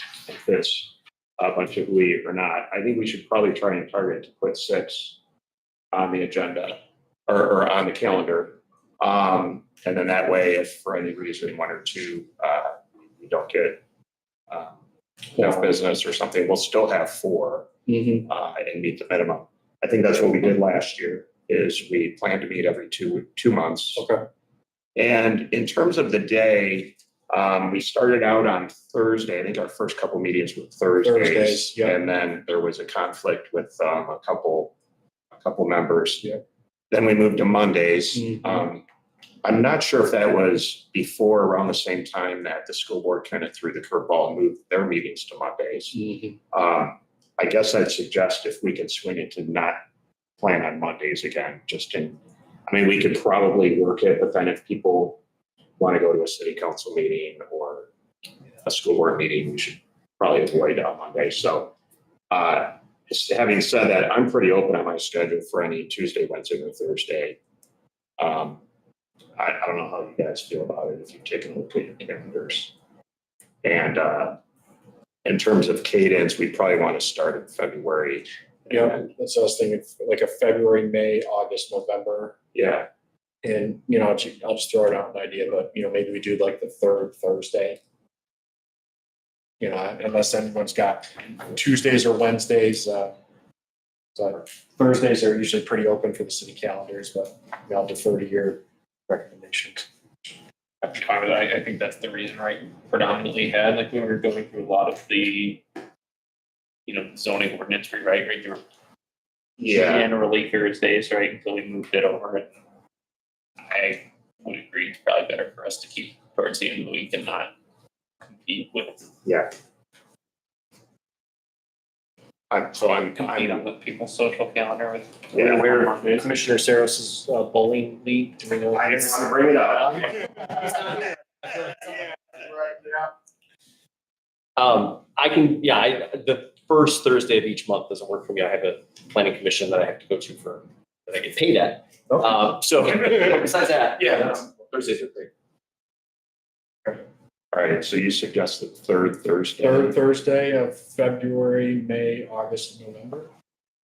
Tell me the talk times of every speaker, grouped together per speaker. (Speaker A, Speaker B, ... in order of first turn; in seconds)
Speaker A: 0.3-5.2, 5.9-13.8, 14.5-14.8, 15.3-17.7, 18.2-24.1, 25.0-34.7, 35.3-36.2, 36.9-38.8, 39.4-49.8, 50.4-55.2, 55.8-57.9, 58.6-61.7, 62.3-67.4, 68.2-68.6, 69.4-72.7, 73.6-74.4, 75.2-79.0, 82.5-82.9, 109.6-110.1, 119.2-119.5, 122.5-123.7, 125.3-125.6, 128.7-130.3, 147.5-150.0
Speaker B: 15.4-15.7, 17.9-18.3, 24.0-24.2, 31.0-32.0, 38.2-38.5, 46.0-46.3, 78.7-82.4, 83.4-87.8, 89.6-93.1, 94.2-99.9, 125.3-130.1, 142.1-142.4, 149.6-153.3
Speaker C: 100.8-105.6, 106.9-108.6, 109.7-112.5, 113.7-117.5, 118.4-119.1, 122.8-126.3
Speaker D: 134.6-145.3